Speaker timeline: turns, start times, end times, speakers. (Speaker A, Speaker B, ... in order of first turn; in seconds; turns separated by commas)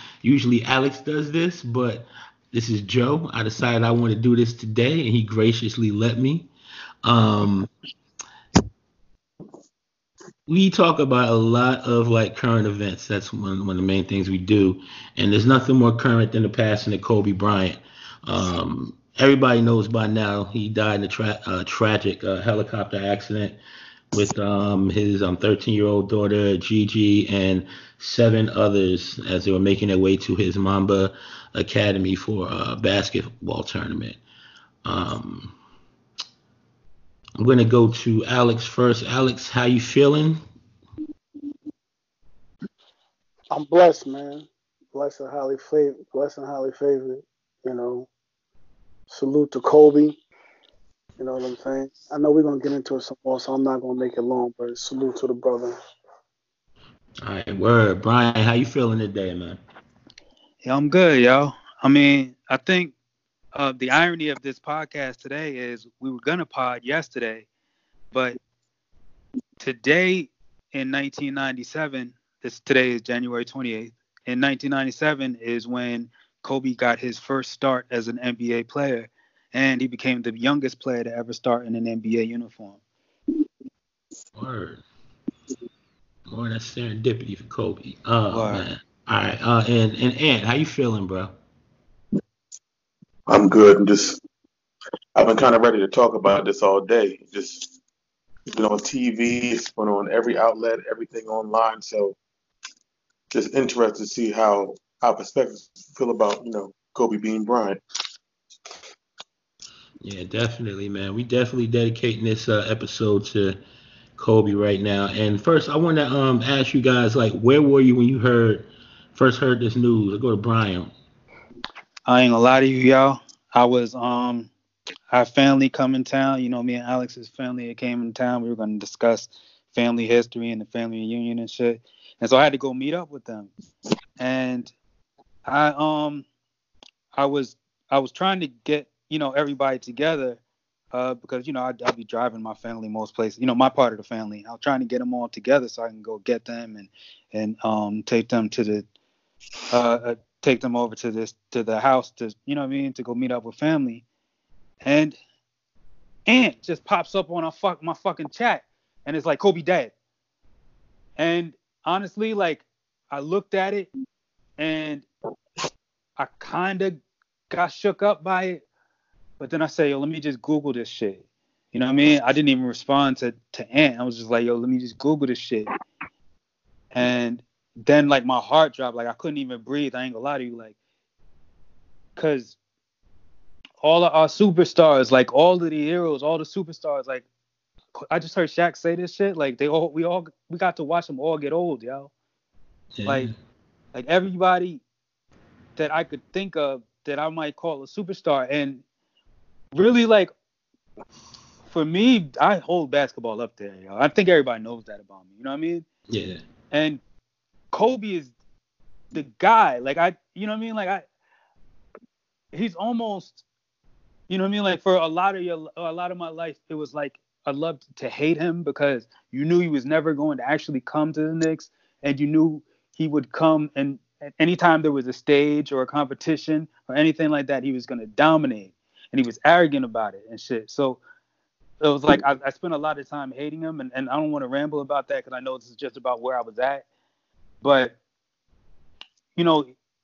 Speaker A: 0.2-6.5, Speaker A: 7.0-7.7, Speaker A: 10.5-23.6, Speaker A: 24.1-34.2, Speaker A: 34.8-35.5, Speaker A: 37.4-40.4, Speaker B: 43.5-48.1, Speaker B: 49.1-50.2, Speaker B: 51.2-55.8, Speaker A: 57.2-59.6, Speaker C: 60.6-62.9, Speaker C: 63.5-67.5, Speaker C: 68.1-68.4, Speaker C: 69.6-82.8, Speaker A: 84.3-84.8, Speaker A: 86.3-91.3, Speaker C: 88.3-88.7, Speaker D: 93.3-94.2, Speaker D: 95.2-97.7, Speaker D: 98.5-102.2, Speaker D: 103.3-107.8, Speaker A: 110.0-113.6, Speaker A: 114.2-120.9, Speaker C: 122.1-124.5, Speaker C: 125.1-133.5, Speaker C: 134.2-134.7, Speaker C: 135.4-136.2, Speaker C: 137.1-140.4, Speaker C: 140.9-148.8, Speaker C: 149.7-154.0, Speaker C: 154.8-155.2, Speaker C: 156.3-159.9, Speaker C: 161.2-163.9, Speaker C: 164.6-165.1, Speaker C: 166.2-167.0, Speaker C: 167.5-168.6, Speaker C: 169.4-175.7, Speaker C: 176.9-180.7, Speaker C: 182.2-182.6, Speaker C: 183.8-187.2, Speaker C: 187.9-192.1, Speaker A: 192.9-193.3, Speaker C: 193.9-194.8, Speaker C: 195.8-198.8, Speaker C: 199.7-200.3, Speaker C: 201.7-205.8, Speaker A: 206.1-206.4, Speaker C: 206.7-207.0, Speaker C: 207.7-208.3, Speaker C: 209.1-211.0, Speaker C: 212.5-213.4, Speaker C: 214.3-231.0, Speaker C: 231.8-236.8, Speaker C: 237.6-238.0, Speaker C: 239.3-239.7